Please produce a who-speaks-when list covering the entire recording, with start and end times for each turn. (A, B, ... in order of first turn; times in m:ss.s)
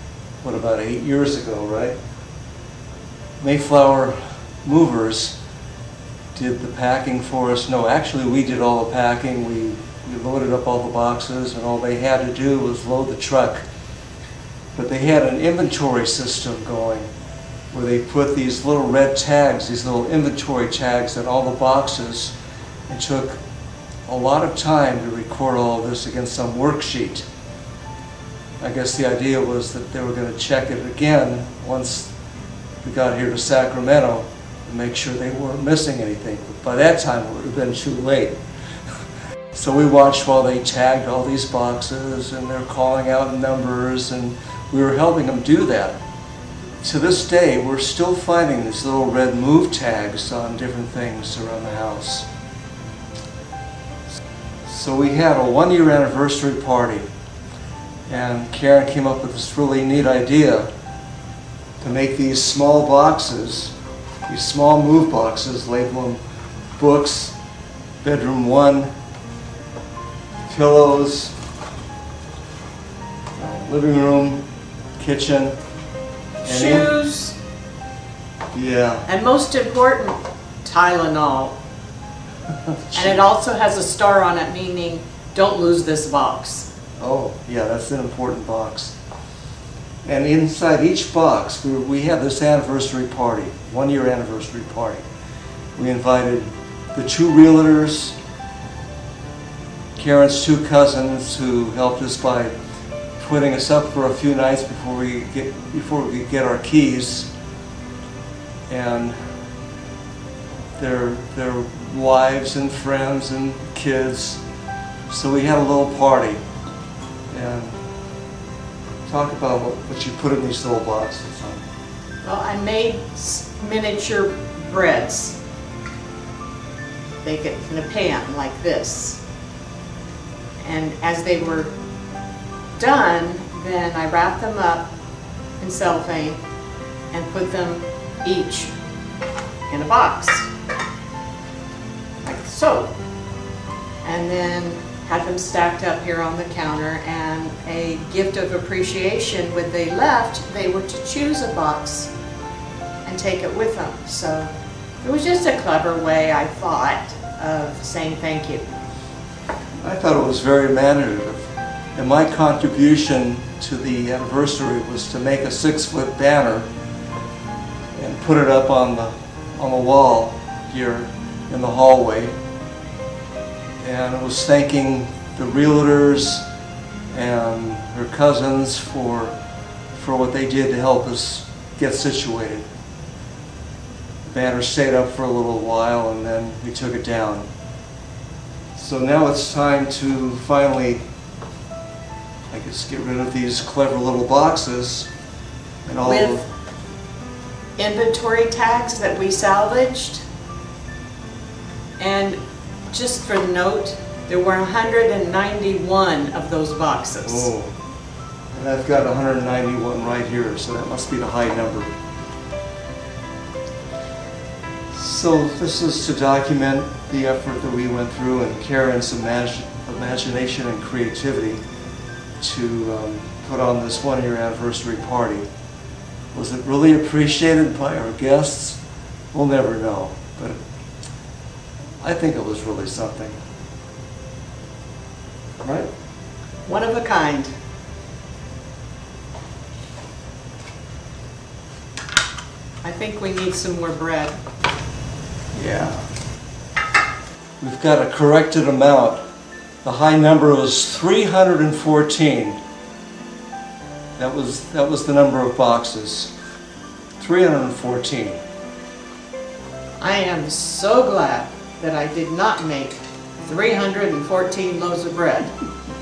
0:00.4-0:02.0 A
0:03.4-0:05.4 A
0:06.4-0:13.6 A
0:14.8-0:17.1 A
0:17.7-0:22.4 A
0:22.9-0:23.4 A
0:24.1-0:27.3 A
0:28.6-0:32.1 A
0:32.8-0:38.4 A
0:39.5-0:46.0 A
0:46.8-0:52.3 A
0:54.7-0:57.1 A
0:58.1-1:00.7 A
1:01.8-1:03.7 A
1:04.3-1:06.2 A
1:06.8-1:07.4 A
1:08.0-1:08.9 A
1:10.5-1:11.4 A
1:13.4-1:14.4 A
1:15.0-1:15.6 A
1:16.4-1:16.9 A
1:16.4-1:17.4 B
1:18.5-1:19.1 A
1:19.1-1:21.6 B
1:22.8-1:23.2 A
1:22.9-1:26.7 B
1:27.0-1:29.0 A
1:30.0-1:35.0 A
1:35.8-1:38.2 A
1:40.0-1:42.5 A
1:43.2-1:47.3 A
1:48.7-1:49.3 A
1:50.8-1:54.4 A
1:55.1-1:56.4 A
1:57.3-1:57.8 A
1:59.1-2:01.6 A
2:02.2-2:05.4 B
2:07.2-2:09.2 B
2:10.6-2:11.7 B
2:12.8-2:14.9 B
2:15.6-2:16.4 B
2:17.1-2:18.7 B
2:19.7-2:20.5 B
2:22.2-2:22.9 B
2:24.0-2:32.1 B
2:33.0-2:38.7 B
2:39.8-2:46.7 A
2:48.0-2:52.4 A
2:53.8-2:56.5 A
2:57.1-2:59.4 A
2:59.9-3:02.7 A
3:04.3-3:07.5 A
3:08.8-3:11.0 A
3:12.5-3:15.1 A
3:15.9-3:16.4 A
3:16.0-3:16.4 B
3:17.8-3:20.2 B
3:22.0-3:22.4 B
3:22.9-3:27.5 B
3:27.2-3:27.7 A
3:28.5-3:31.9 A
3:34.9-3:41.6 A
3:42.4-3:45.5 A
3:46.3-3:48.8 A
3:49.3-3:50.6 A
3:52.0-3:53.4 A
3:55.6-3:55.9 A
3:56.7-3:57.5 B
4:02.8-4:04.4 B
4:05.5-4:06.0 A
4:07.6-4:09.2 A
4:09.8-4:12.6 A
4:14.2-4:16.3 A
4:17.2-4:18.4 A
4:20.0-4:25.5 B